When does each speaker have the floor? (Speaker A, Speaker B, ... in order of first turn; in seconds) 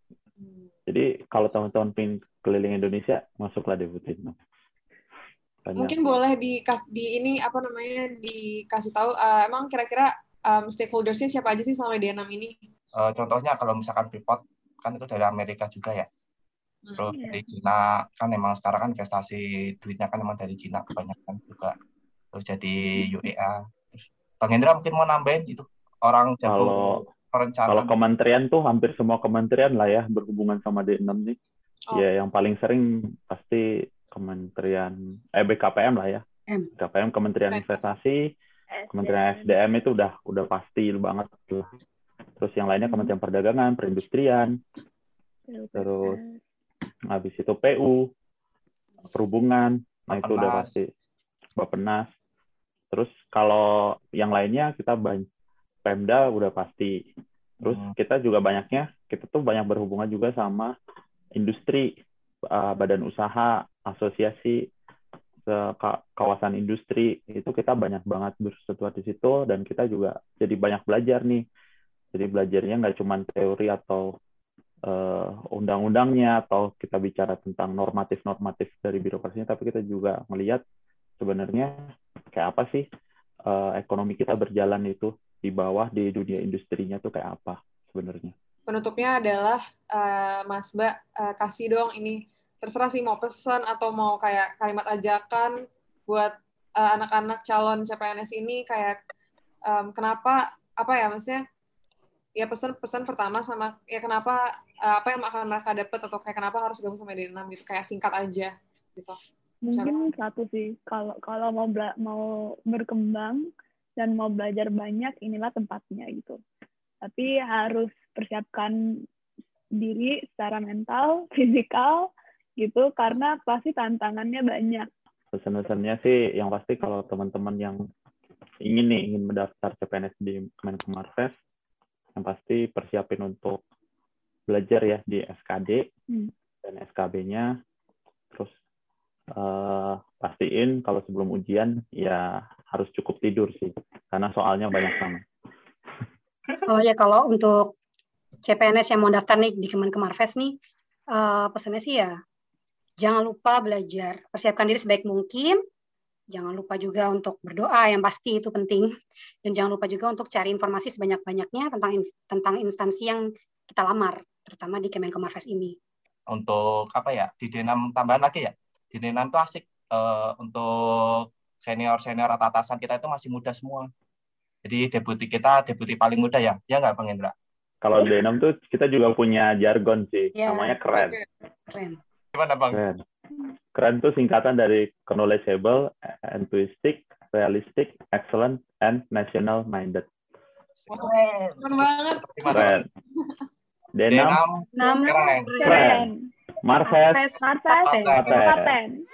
Speaker A: 0.4-0.7, 5.8-12.6, 37.5-37.9, 88.7-95.5, 96.1-99.0, 99.7-101.4, 102.4-110.1, 180.9-181.3, 190.9-193.4
Speaker B: 0.9-4.4, 5.7-6.1, 26.5-27.0, 27.7-31.4, 31.9-36.2, 36.8-38.3, 38.9-41.8, 42.4-44.5, 45.8-46.2, 47.1-48.1, 49.1-50.9, 51.6-52.1, 52.9-55.3, 55.9-57.0, 57.6-60.7, 61.4-61.9, 62.5-64.7, 65.5-71.4, 72.1-74.1, 74.9-80.6, 81.2-81.8, 82.3-82.8, 83.5-88.3, 125.3-127.8, 128.7-131.3, 132.2-133.6, 134.5-135.8, 136.6-137.5, 139.4-145.2, 177.8-181.2, 182.7-183.0, 183.8-190.1, 192.5-192.8, 194.0-194.4, 195.7-196.1, 196.6-197.2, 198.2-198.8
Speaker C: 13.0-16.1, 17.0-21.8, 22.3-27.9, 50.1-50.8, 57.6-57.9, 166.3-173.9, 174.7-177.3, 182.3-182.8, 190.9-192.8, 194.1-195.8, 197.5-198.6
Speaker D: 17.1-17.5, 38.7-39.6, 42.8-43.1, 45.5-46.4, 109.6-113.5, 114.0-116.4, 117.0-118.7, 119.8-122.1, 122.6-124.9, 194.8-196.2, 197.4-199.0
Speaker E: 146.7-147.7, 148.4-150.6, 151.1-152.1, 153.0-155.6, 156.3-158.9, 159.4-165.8, 180.4-180.8, 181.7-182.0, 194.7-195.9, 196.9-198.2